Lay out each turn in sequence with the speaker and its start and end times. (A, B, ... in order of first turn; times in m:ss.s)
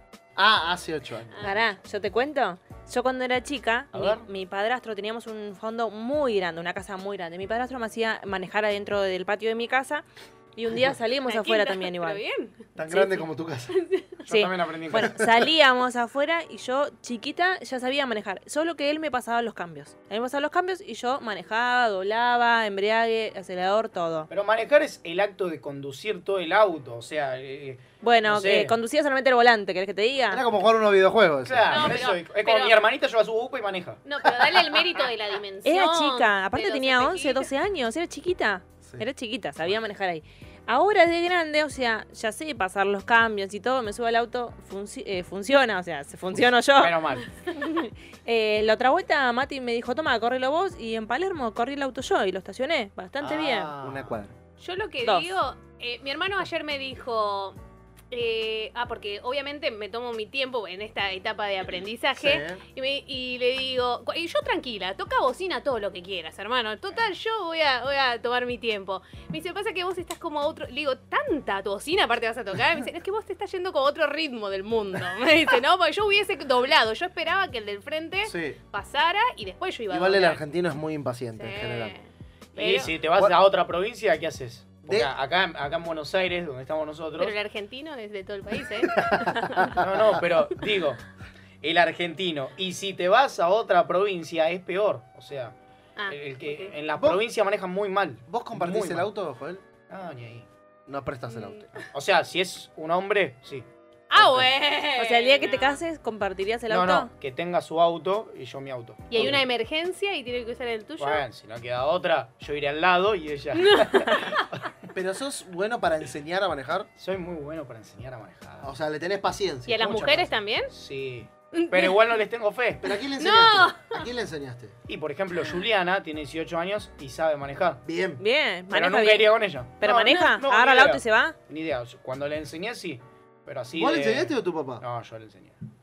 0:00.4-0:01.6 A
0:01.4-0:12.2 B
0:11.3-0:12.6 C
0:12.8-0:13.7 A
0:12.9-0:13.2 B
0:13.7-0:14.2 C
0:14.2-0:15.1 D
0:14.3-0:24.3 B
0:14.9-0:15.4 A
0:24.3-0:28.7 D
0:28.0-0:30.4 B
0:30.3-0:32.0 A
0:31.4-0:34.0 D
0:31.7-0:32.7 C
0:34.0-0:37.5 C
0:35.6-0:53.7 B
0:46.8-0:47.3 D
0:53.2-0:54.3 A
0:53.6-0:54.2 D
0:54.6-0:57.6 C
0:55.0-0:55.4 B
0:58.1-1:20.4 C
1:02.1-1:02.6 A
1:18.2-1:18.6 A
1:19.9-1:21.9 A
1:21.4-1:22.9 C
1:22.6-1:27.3 D
1:24.8-1:25.1 A
1:27.2-1:29.8 C
1:29.0-1:30.1 A
1:29.7-1:31.0 D
1:31.6-1:35.5 D
1:36.0-1:36.7 C
1:36.1-1:39.1 D
1:38.3-1:39.6 A
1:39.9-1:40.5 D
1:40.9-1:41.6 A
1:41.3-1:41.8 C
1:41.8-1:43.6 D
1:44.1-1:45.8 C
1:44.2-1:44.4 D
1:45.0-1:47.1 B
1:46.7-1:49.4 D
1:49.1-1:51.2 C
1:51.0-1:54.7 D
1:53.5-1:54.4 C
1:54.9-1:56.9 A
1:57.0-1:58.7 D
1:58.6-2:00.3 A
1:59.7-2:00.7 C
2:00.7-2:02.8 D
2:01.5-2:02.0 C
2:02.8-2:04.7 A
2:03.2-2:04.1 C
2:04.9-2:07.8 D
2:07.8-2:08.2 A
2:08.2-2:11.4 B
2:08.7-2:15.6 D
2:13.7-2:14.8 A